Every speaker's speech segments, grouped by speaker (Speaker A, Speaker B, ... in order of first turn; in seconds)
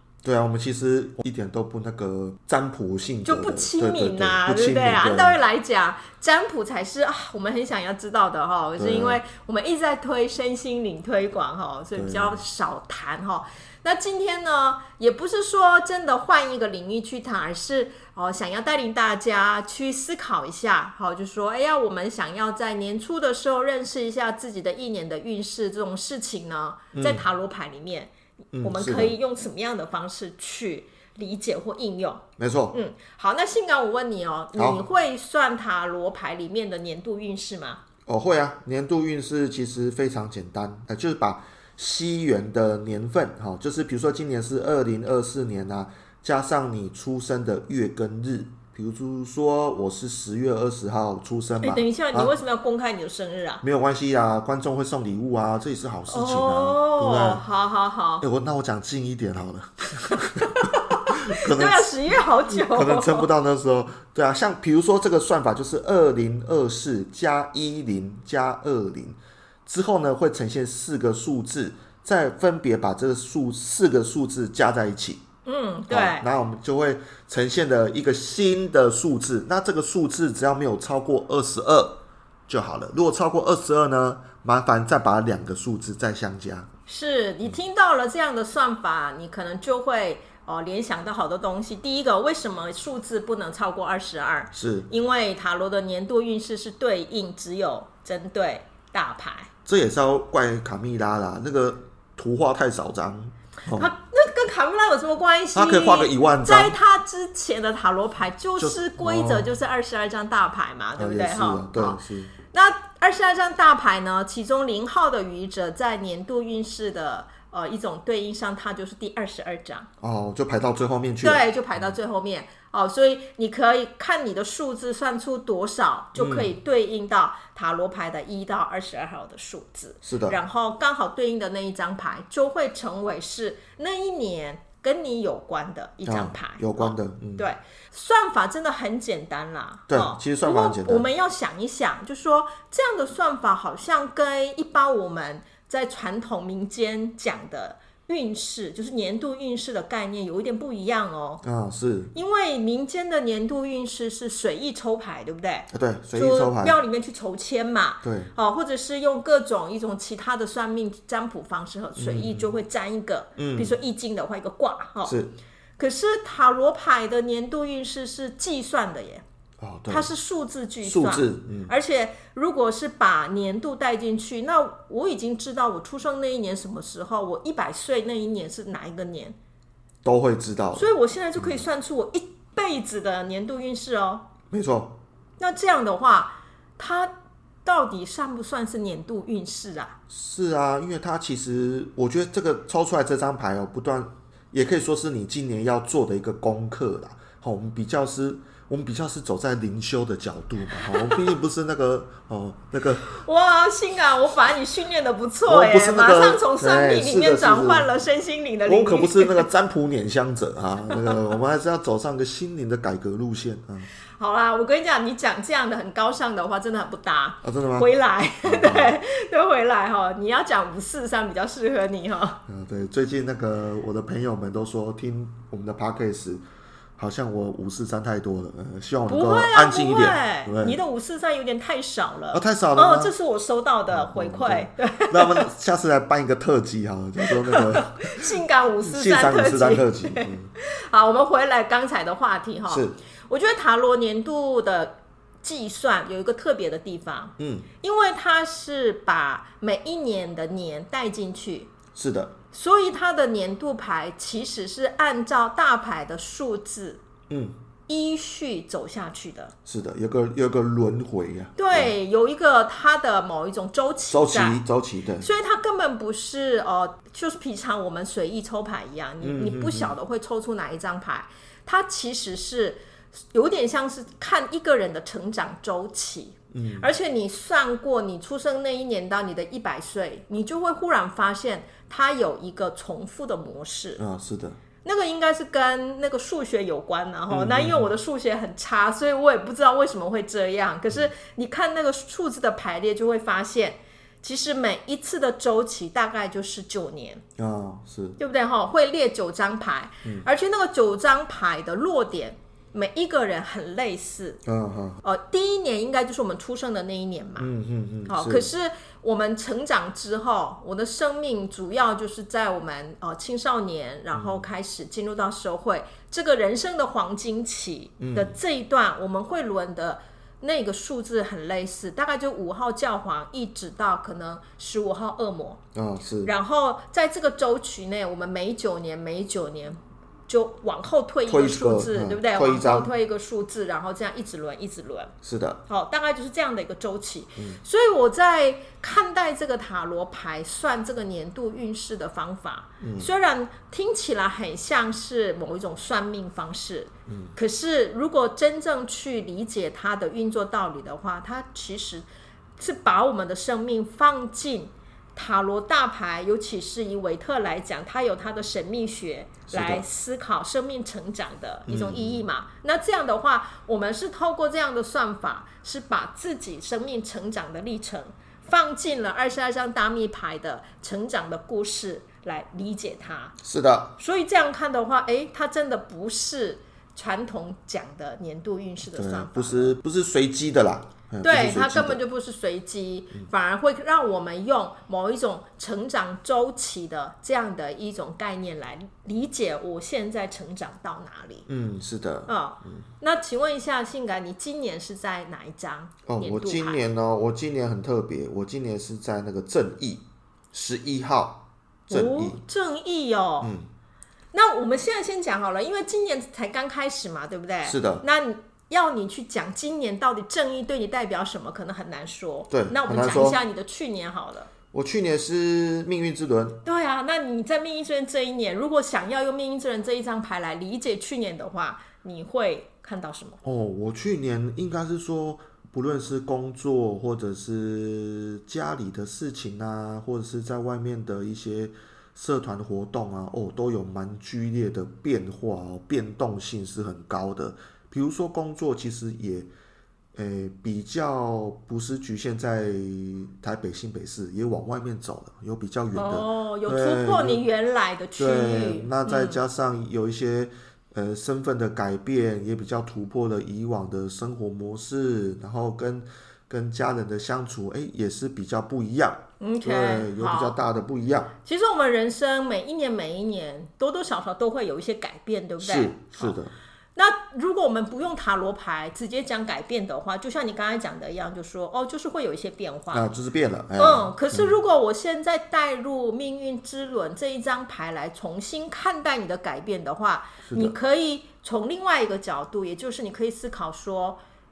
Speaker A: 0.2-5.4, 8.8-9.2, 11.9-12.4, 26.9-27.2, 28.5-29.2, 32.4-32.8, 34.6-34.8, 38.1-52.3, 53.6-57.4, 58.2-75.2, 75.9-86.7, 94.5-94.9, 99.7-103.9, 105.5-106.8, 108.6-109.5, 111.0-112.3, 120.0-121.9, 126.2-126.5, 130.0-130.4, 136.1-137.5, 139.9-141.1, 151.4-152.1, 155.7-156.8, 158.0-158.3, 162.0-162.5, 163.4-163.7, 165.1-165.3, 169.6-170.1, 170.8-171.7, 180.0-181.7, 184.5-185.0, 190.1-203.1, 205.5-207.9, 208.7-213.9, 217.4-217.9, 218.4-219.0, 222.5-226.4, 227.0-230.8, 232.3-233.1, 233.9-240.5, 242.7-243.0, 247.4-247.7, 251.9-252.4, 257.3-257.6, 259.7-261.9, 264.1-265.3, 269.2-269.9, 276.5-276.9, 284.0-284.6, 287.3-287.9, 297.4-298.2, 304.4-305.0, 307.4-308.5, 314.1-314.4, 318.0-318.4, 325.8-326.3, 331.3-332.9, 335.2-335.6, 342.8-343.1, 347.1-347.3, 359.5-359.8, 361.7-362.2, 373.4-374.0, 378.9-382.0, 391.5-392.9, 396.1-402.4, 403.4-403.7, 407.6-408.0, 412.5-413.4, 414.7-416.6, 423.4-439.5, 440.1-447.4, 448.2-461.3, 465.6-466.5, 472.9-474.6, 480.4-480.8
Speaker B: 3.3-37.8, 51.6-53.6, 56.1-58.2, 60.0-63.3, 75.5-76.3, 86.9-99.5, 103.7-119.9, 121.2-151.4, 152.1-165.2, 165.8-169.2, 169.9-179.4, 180.8-184.3, 185.4-187.1, 187.7-190.0, 200.8-201.2, 203.0-209.5, 214.2-222.4, 229.1-235.5, 237.3-251.7, 252.5-257.0, 257.9-259.5, 261.6-264.6, 265.2-272.8, 273.3-284.0, 284.8-297.2, 298.2-304.4, 305.0-307.5, 308.1-325.6, 326.2-335.1, 335.7-352.1, 352.6-373.4, 374.0-379.8, 381.2-391.5, 392.3-396.8, 401.9-403.5, 404.3-414.5, 416.6-423.4, 445.9-449.4, 459.4-460.6, 461.4-466.4, 467.0-473.1, 473.8-484.2